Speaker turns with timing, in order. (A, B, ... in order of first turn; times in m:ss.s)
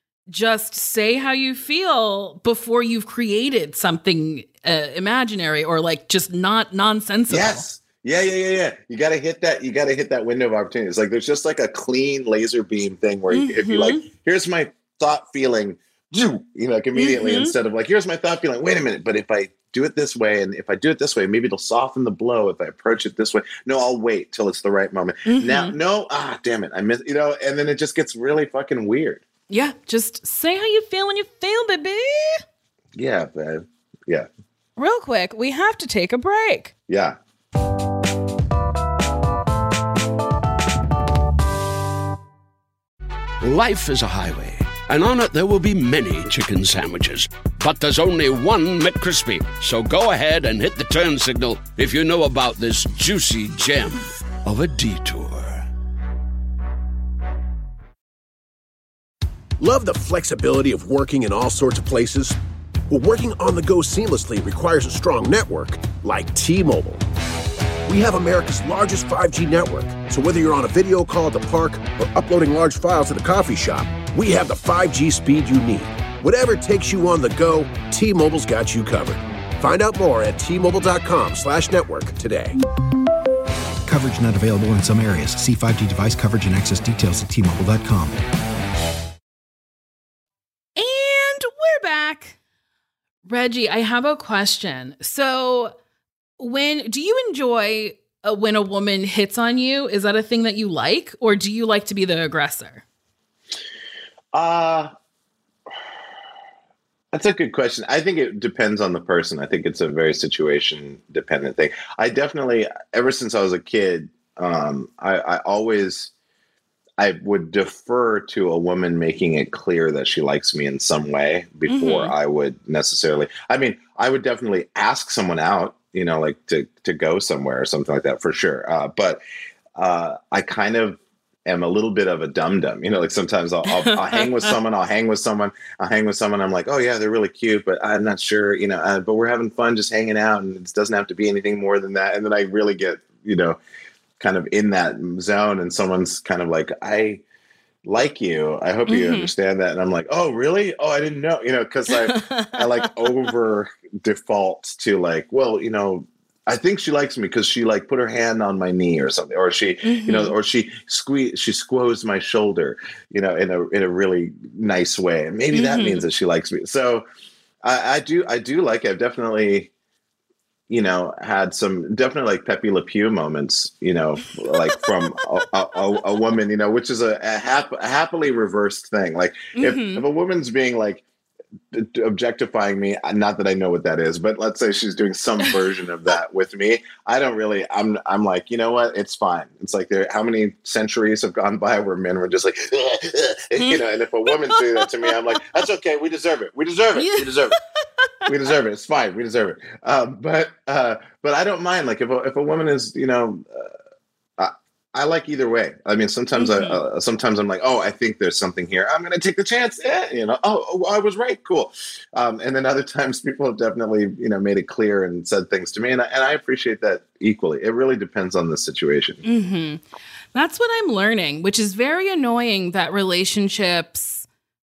0:00.3-0:07.7 A
0:07.3-0:29.2 B
0:13.3-0:14.0 A
0:17.0-0:17.5 A
0:25.3-0:25.7 A
0:29.5-0:32.4 A
0:33.0-0:34.3 B
0:34.8-0:36.7 A
0:36.9-0:37.2 B
0:43.4-0:55.7 C
0:59.6-1:02.4 D
1:02.9-1:07.0 D
1:07.9-1:22.6 D
1:23.9-1:28.2 E
1:30.8-1:32.4 A
1:33.3-1:35.7 A
1:36.4-1:42.8 A
1:44.3-1:44.9 B
1:47.1-1:56.1 B
1:57.0-2:09.2 B
2:01.7-2:02.1 A
2:09.8-2:23.6 B
2:13.7-2:14.6 A
2:24.2-2:27.2 B
2:27.8-2:47.0 B
2:28.9-2:29.3 A
2:31.9-2:33.3 A
2:39.8-2:40.3 A
2:45.5-2:46.0 A
2:47.6-2:49.7 B
2:50.7-3:01.0 B
2:54.5-2:55.0 A
2:59.6-3:00.0 A
3:01.7-3:17.6 B
3:13.6-3:15.4 A
3:17.0-3:17.5 A
3:18.3-3:23.7 B
3:24.4-3:39.2 B
3:26.3-3:26.8 A
3:39.2-3:39.8 A
3:40.3-3:44.3 A